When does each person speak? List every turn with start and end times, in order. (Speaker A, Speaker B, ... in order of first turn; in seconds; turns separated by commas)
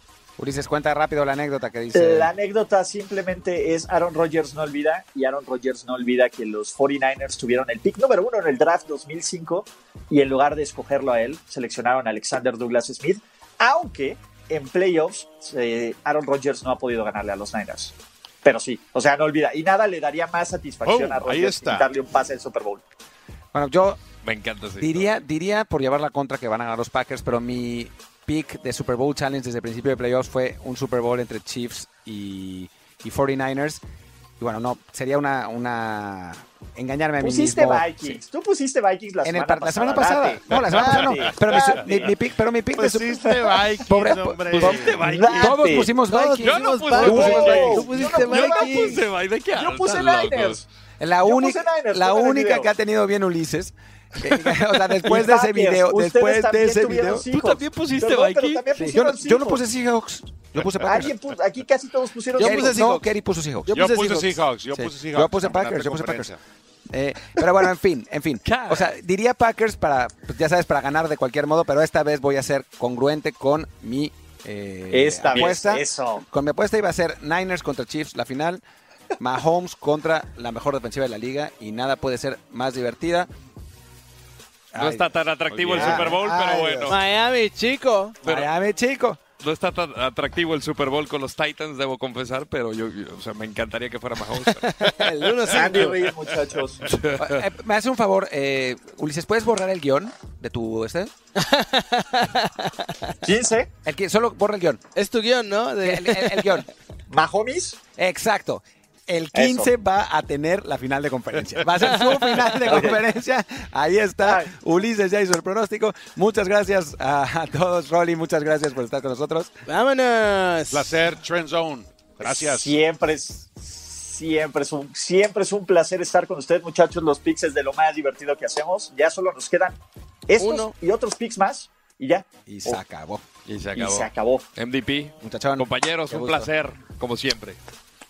Speaker A: 0.4-2.3, Speaker B: 1.9-17.9, Speaker B: 18.4-22.8, Speaker C: 20.8-21.9, Speaker A: 23.5-24.0, Speaker D: 24.2-25.1, Speaker A: 24.8-33.8, Speaker A: 34.4-38.2, Speaker B: 37.2-42.1, Speaker A: 39.2-43.3, Speaker C: 40.7-42.0, Speaker D: 40.7-41.6, Speaker C: 42.7-45.3, Speaker A: 43.9-46.5, Speaker D: 44.5-50.6, Speaker B: 45.0-46.0, Speaker E: 46.0-49.0, Speaker B: 46.9-49.0, Speaker B: 49.5-50.6, Speaker A: 51.0-57.3, Speaker B: 51.2-52.7, Speaker B: 55.0-59.6, Speaker D: 57.3-58.6, Speaker A: 58.8-61.1, Speaker B: 60.8-62.9, Speaker E: 62.4-63.1, Speaker A: 62.4-63.8, Speaker E: 63.7-64.4, Speaker C: 63.7-66.4, Speaker A: 64.7-66.3, Speaker A: 66.9-78.6, Speaker D: 68.4-68.9, Speaker B: 74.9-76.2, Speaker A: 79.2-83.3, Speaker A: 84.7-87.0, Speaker D: 84.7-87.0, Speaker C: 85.5-86.1, Speaker E: 86.9-88.2, Speaker A: 88.2-89.2, Speaker D: 89.4-95.9, Speaker E: 94.6-96.1, Speaker B: 95.5-96.8, Speaker D: 96.8-97.4, Speaker A: 97.2-101.1, Speaker E: 101.3-103.1, Speaker B: 103.2-103.7, Speaker A: 103.8-104.8, Speaker E: 104.9-106.7, Speaker A: 105.8-106.7, Speaker B: 107.1-107.8, Speaker A: 108.0-119.5, Speaker B: 109.3-109.7, Speaker E: 111.9-112.8, Speaker B: 112.7-113.0, Speaker B: 114.2-114.5, Speaker E: 119.7-121.0, Speaker C: 120.7-122.8, Speaker B: 122.2-129.8, Speaker B: 130.3-132.8, Speaker E: 130.4-130.7, Speaker A: 132.5-133.2, Speaker D: 133.4-137.6, Speaker B: 133.8-134.4, Speaker A: 135.2-136.5